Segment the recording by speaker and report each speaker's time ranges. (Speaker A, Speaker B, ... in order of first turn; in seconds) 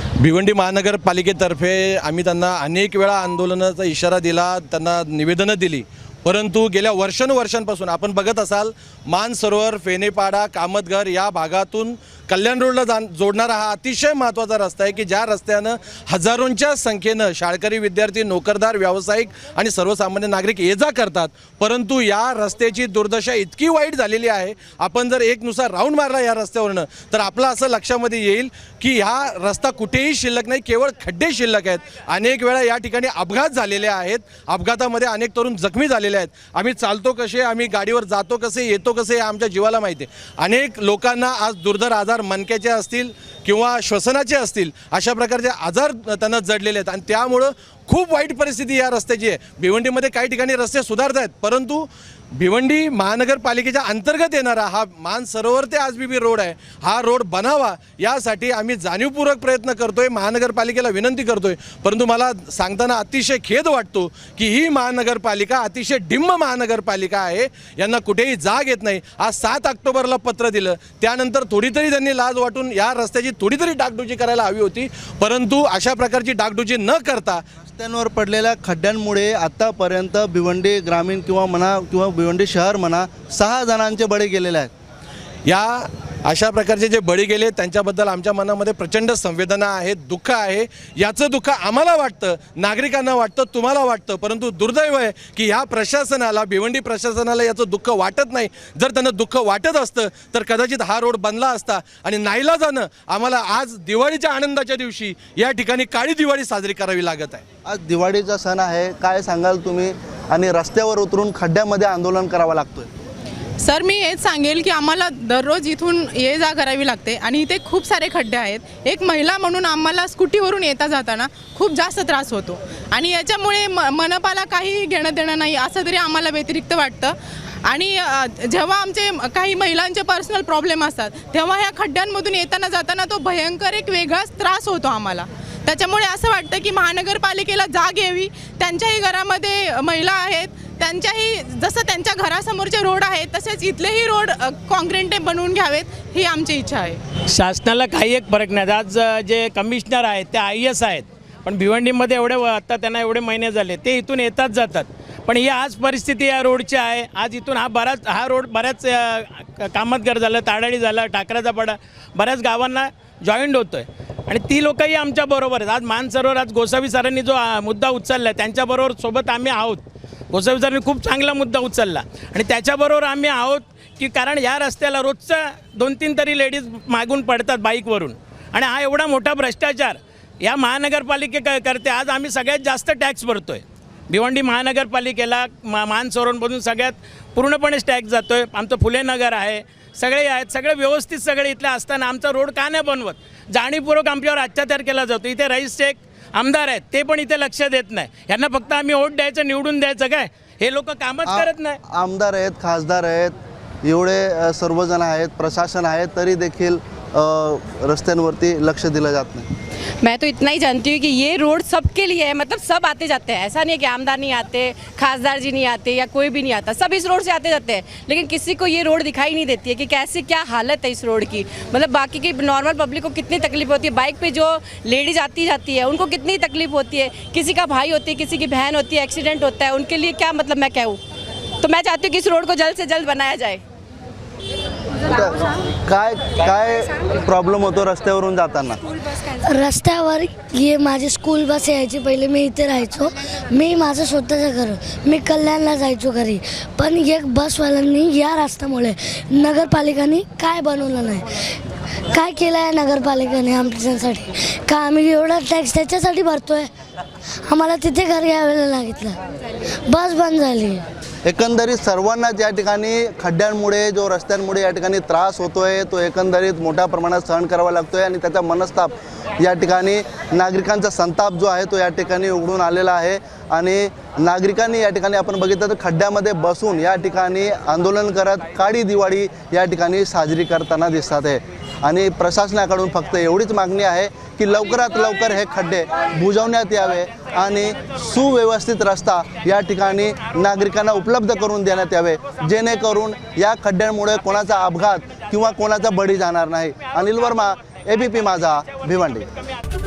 Speaker A: 0.2-77.4, 85.5-107.4
Speaker B: 77.7-84.7, 107.7-112.9, 201.2-209.5, 235.1-238.8, 261.2-299.3
Speaker C: 113.6-127.2, 127.7-147.0
Speaker D: 147.3-201.8
Speaker E: 210.0-231.0, 231.6-233.6
Speaker F: 239.4-251.4, 252.1-256.7, 257.5-259.2, 259.9-260.8